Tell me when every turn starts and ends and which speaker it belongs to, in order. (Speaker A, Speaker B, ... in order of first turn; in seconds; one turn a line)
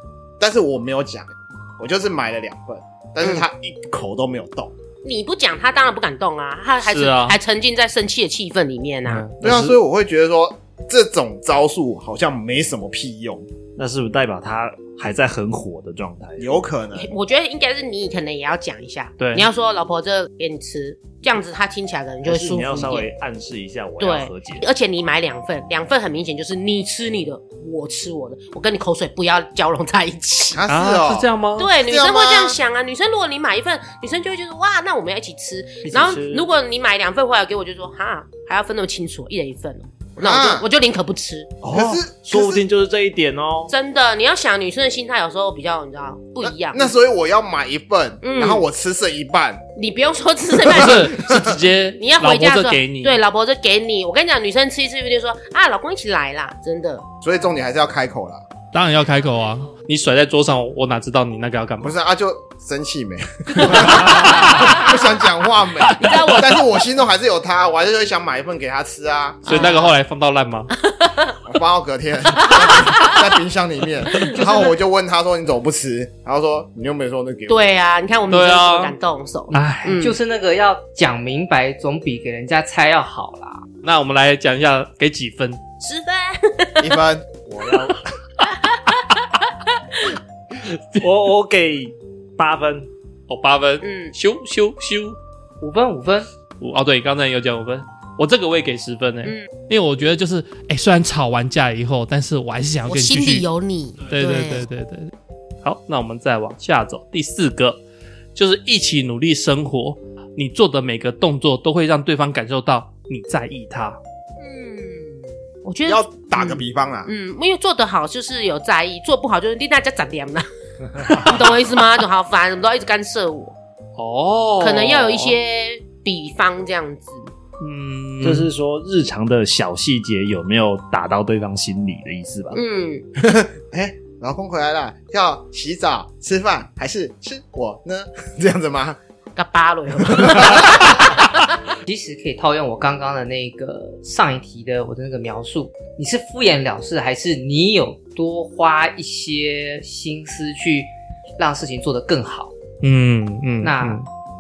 Speaker A: 0.4-4.7
Speaker B: 5.0-9.3
Speaker C: 6.8-7.4
Speaker D: 9.4-9.8
Speaker A: 9.4-13.5
Speaker D: 13.8-16.5
Speaker A: 16.4-17.1
Speaker B: 16.9-23.1
Speaker C: 19.2-19.5
Speaker D: 22.2-24.6
Speaker B: 24.0-30.6
Speaker A: 30.5-31.3
Speaker C: 30.7-31.7
Speaker B: 31.6-41.6
Speaker A: 31.8-32.6
Speaker D: 35.8-36.5
Speaker A: 40.2-40.7
Speaker D: 41.6-43.7
Speaker A: 41.7-42.6
Speaker B: 43.7-46.9
Speaker A: 46.4-49.6
Speaker B: 48.2-48.6
Speaker B: 49.8-51.2
Speaker C: 50.6-53.2
Speaker A: 50.7-51.5
Speaker B: 52.0-57.1
Speaker A: 57.2-58.4
Speaker C: 58.7-61.9
Speaker A: 61.8-69.9
Speaker C: 63.7-64.8
Speaker B: 64.1-64.8
Speaker B: 66.0-66.5
Speaker C: 66.0-66.3
Speaker C: 69.5-70.7
Speaker B: 69.5-69.9
Speaker B: 70.9-71.3
Speaker A: 71.5-77.7
Speaker B: 72.4-73.2
Speaker B: 74.1-74.7
Speaker B: 77.5-80.2
Speaker C: 78.3-78.9
Speaker C: 79.5-80.1
Speaker E: 80.0-83.6
Speaker C: 83.8-85.6
Speaker B: 85.8-86.9
Speaker A: 86.8-87.4
Speaker D: 87.5-88.0
Speaker B: 88.4-89.0
Speaker C: 90.6-91.0
Speaker D: 91.0-92.9
Speaker C: 93.3-95.2
Speaker B: 93.8-94.1
Speaker E: 95.6-96.3
Speaker C: 96.6-103.5
Speaker B: 102.9-104.6
Speaker C: 104.0-105.1
Speaker C: 105.6-107.8
Speaker C: 108.3-114.0
Speaker B: 114.4-120.4
Speaker A: 115.8-117.1
Speaker B: 121.0-123.5
Speaker C: 124.0-125.4
Speaker B: 124.6-127.3
Speaker C: 127.6-128.5
Speaker D: 128.2-132.6
Speaker B: 132.5-133.1
Speaker A: 133.2-139.0
Speaker B: 139.3-141.4
Speaker A: 140.0-141.0
Speaker E: 141.8-152.5
Speaker C: 152.8-154.1
Speaker E: 153.6-154.0